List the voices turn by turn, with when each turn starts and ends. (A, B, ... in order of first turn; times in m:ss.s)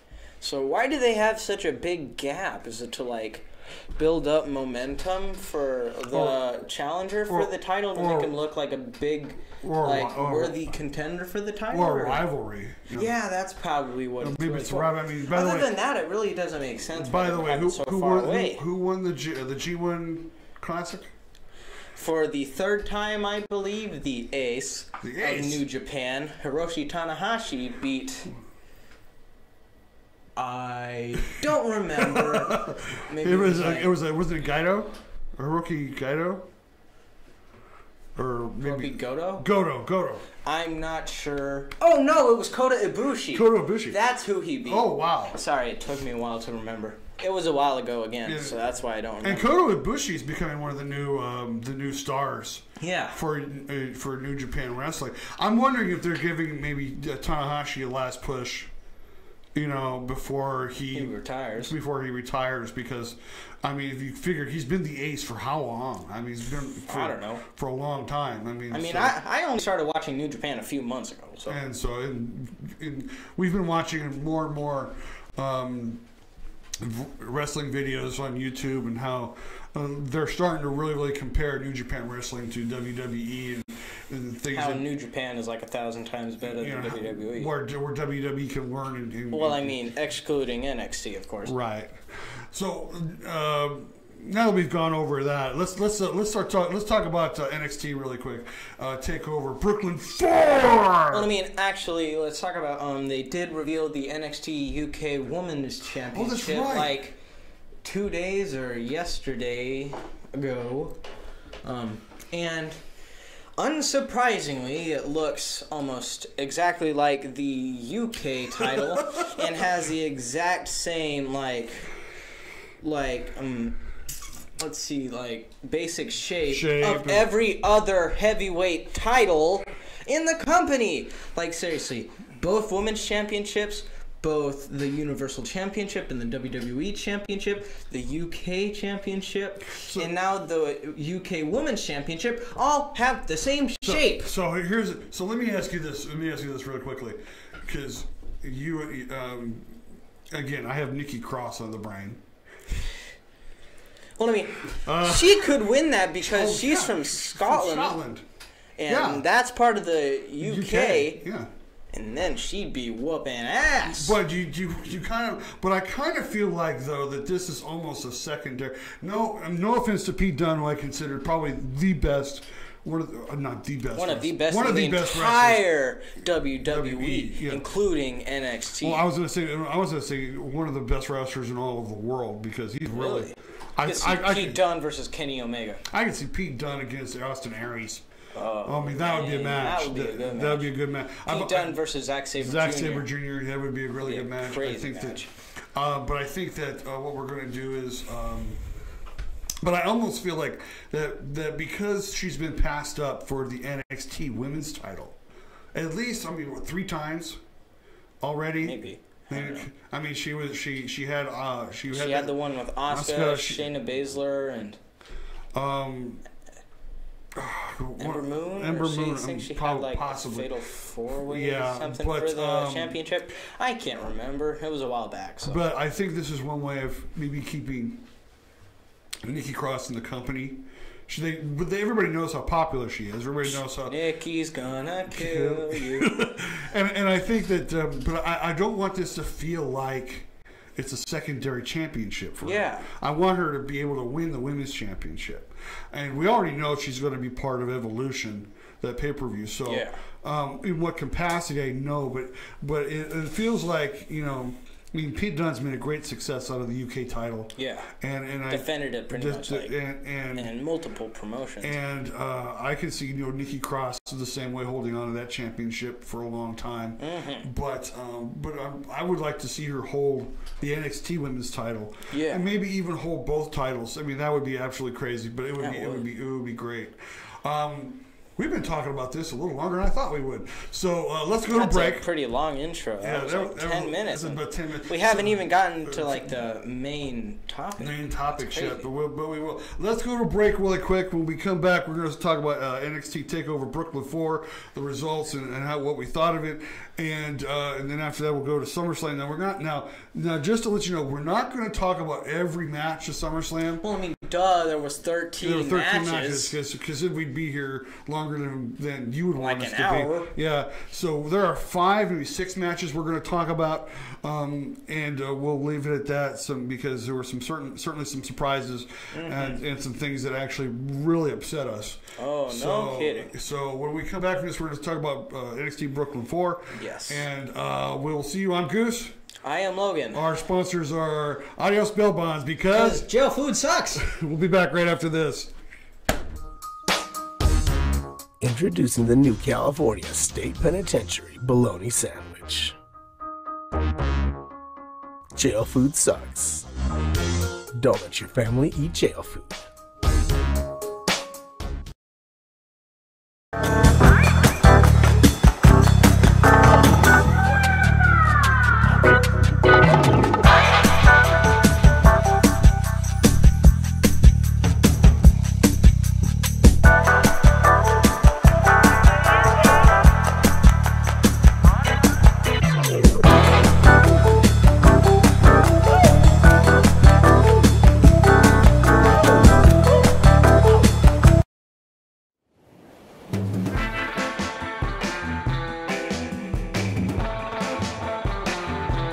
0:00.4-0:12.3 A
0:06.1-0:06.4 B
0:07.3-0:08.4 B
0:09.6-0:10.8 B
0:11.7-0:13.1 B
0:12.9-0:18.6 A
0:14.2-0:15.8 B
0:17.0-0:21.1 B
0:22.0-0:28.3 A
0:25.0-0:25.6 B
0:30.4-0:33.9 A
0:32.0-0:36.5 B
0:38.2-0:40.3 B
0:38.6-0:39.5 A
0:40.4-0:49.5 A
0:43.3-0:44.0 B
0:44.7-0:45.4 B
0:48.2-0:48.7 B
0:49.2-0:58.7 B
0:52.8-0:53.2 A
0:59.6-1:09.2 B
1:00.9-1:01.7 A
1:06.9-1:07.4 A
1:08.7-1:11.6 A
1:11.5-1:16.0 B
1:16.8-1:24.9 B
1:24.5-1:27.5 A
1:26.4-1:29.8 B
1:29.3-1:31.6 A
1:31.4-1:41.3 B
1:41.1-1:47.2 A
1:46.1-1:47.0 B
1:47.8-1:51.0 A
1:51.6-1:52.8 A
1:53.6-2:01.9 A
1:58.6-1:59.5 B
2:02.8-2:03.8 A
2:04.6-2:24.3 A
2:06.5-2:07.3 B
2:19.8-2:20.1 B
2:23.8-2:29.8 B
2:30.3-2:32.2 B
2:34.2-2:38.0 A
2:34.8-2:35.5 B
2:36.2-2:38.2 B
2:38.8-2:41.2 A
2:38.9-2:39.3 B
2:40.4-2:41.5 B
2:41.9-2:44.2 A
2:43.8-2:55.7 B
2:54.0-2:59.1 A
2:56.6-2:57.7 B
2:58.8-3:04.6 B
3:02.9-3:05.8 A
3:05.9-3:08.0 B
3:08.3-3:13.1 A
3:08.6-3:18.6 B
3:14.0-3:15.3 A
3:19.6-3:25.2 B
3:25.7-3:27.4 B
3:28.2-3:33.8 B
3:28.6-3:29.7 A
3:31.9-3:34.8 A
3:35.5-3:36.2 B
3:37.4-3:40.6 B
3:38.0-3:45.6 A
3:41.2-3:43.0 B
3:45.4-3:48.0 B
3:49.2-3:54.0 B
3:53.5-3:56.3 A
3:55.1-4:20.5 B
4:02.4-4:02.9 A
4:09.7-4:10.0 A
4:17.6-4:17.9 A
4:18.5-4:19.8 A
4:20.4-4:21.8 A
4:21.6-4:42.1 B
4:27.0-4:27.5 A
4:32.1-4:32.5 A
4:35.6-4:36.1 A
4:41.5-4:48.8 A
4:43.0-4:46.3 B
4:47.8-5:03.8 B
5:03.8-5:06.6 A
5:05.4-5:29.2 B
5:09.4-5:10.3 A
5:19.1-5:19.6 A
5:22.2-5:23.3 A
5:26.7-5:27.3 A
5:29.4-5:30.3 A
5:30.1-5:33.1 B
5:32.7-5:34.0 A
5:34.0-5:35.5 B
5:38.4-5:42.8 C
5:45.4-5:46.7 C
5:47.8-5:49.6 C